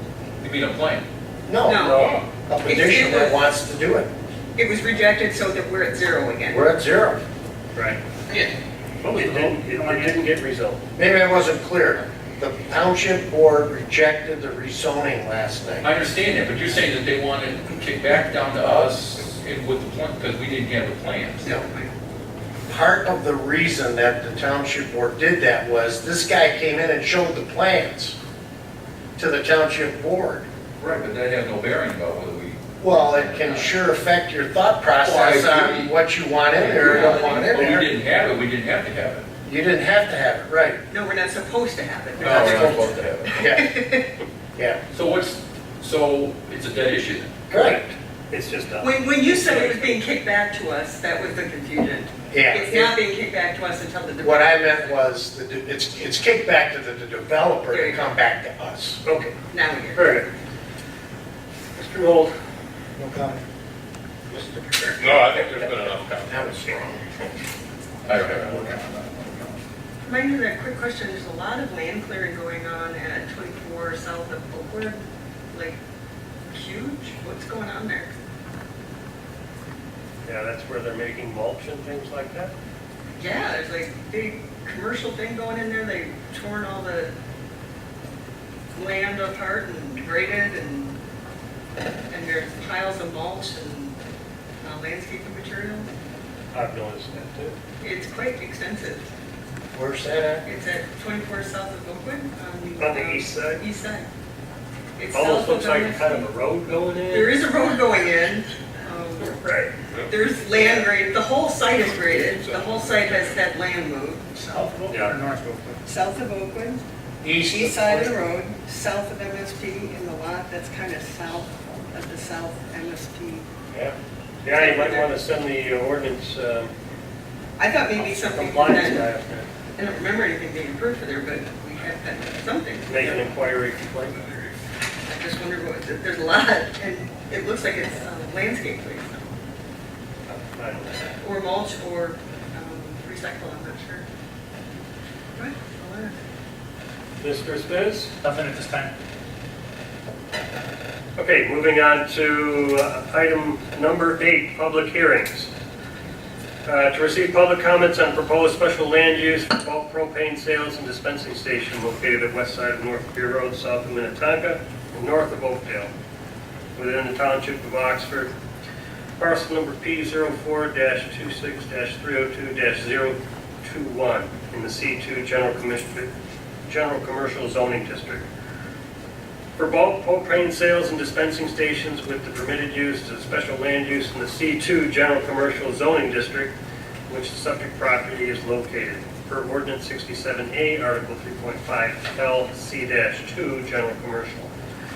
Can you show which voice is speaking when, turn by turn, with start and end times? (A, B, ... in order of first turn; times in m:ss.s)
0:00.4-0:01.0 A
0:01.5-0:04.1 B
0:01.6-0:02.1 C
0:01.8-0:02.3 D
0:02.6-0:03.4 C
0:04.6-0:06.6 C
0:06.5-0:07.2 B
0:09.0-0:10.2 E
0:09.1-0:10.8 F
0:11.0-0:15.9 B
0:15.8-0:21.4 A
0:21.4-0:21.9 C
0:22.7-0:28.2 B
0:29.2-0:30.5 B
0:30.8-0:33.8 A
0:32.8-0:37.9 B
0:35.0-0:36.0 A
0:36.5-0:39.3 A
0:36.7-0:37.6 C
0:39.4-0:40.8 B
0:40.9-0:44.1 C
0:42.2-0:43.4 A
0:42.2-0:43.7 B
0:44.9-0:47.3 A
0:47.5-0:47.8 B
0:47.5-0:50.0 F
0:48.8-0:54.8 C
0:52.3-0:53.0 B
0:54.2-0:59.0 B
0:57.7-0:58.1 C
0:59.0-0:59.4 F
0:59.5-1:00.2 C
0:59.9-1:00.3 F
1:01.8-1:02.3 F
1:03.0-1:03.4 B
1:04.3-1:05.2 B
1:05.0-1:06.7 D
1:06.3-1:07.0 B
1:08.0-1:09.6 A
1:10.0-1:15.0 C
1:16.5-1:18.1 C
1:20.2-1:22.5 F
1:23.2-1:27.1 C
1:28.7-1:31.0 C
1:32.1-1:34.0 C
1:34.6-1:35.9 C
1:36.5-1:37.6 F
1:37.8-1:39.1 C
1:39.7-1:40.4 B
1:40.4-1:44.0 C
1:42.8-1:43.6 F
1:45.0-1:46.3 C
1:45.1-1:47.4 F
1:47.1-1:49.4 C
1:49.4-1:49.7 F
1:49.9-1:50.9 D
1:50.1-1:54.3 C
1:51.7-1:53.4 D
1:54.3-1:55.8 E
1:54.9-1:55.2 F
1:55.8-1:56.8 C
1:57.2-1:58.1 B
1:57.4-2:03.5 C
2:04.4-2:06.7 F
2:04.5-2:05.1 C
2:07.6-2:09.1 C
2:08.0-2:09.5 F
2:09.8-2:13.3 C
2:12.9-2:14.5 F
2:15.1-2:19.3 C
2:20.3-2:21.0 F
2:21.2-2:24.0 C
2:25.3-2:26.2 C
2:27.2-2:28.1 F
2:28.2-2:28.9 E
2:31.2-2:35.5 F
2:36.6-2:45.9 F
2:46.8-2:48.3 F
2:49.2-2:56.1 F
2:56.7-2:58.2 F
2:59.6-3:06.5 F
3:07.1-3:14.5 F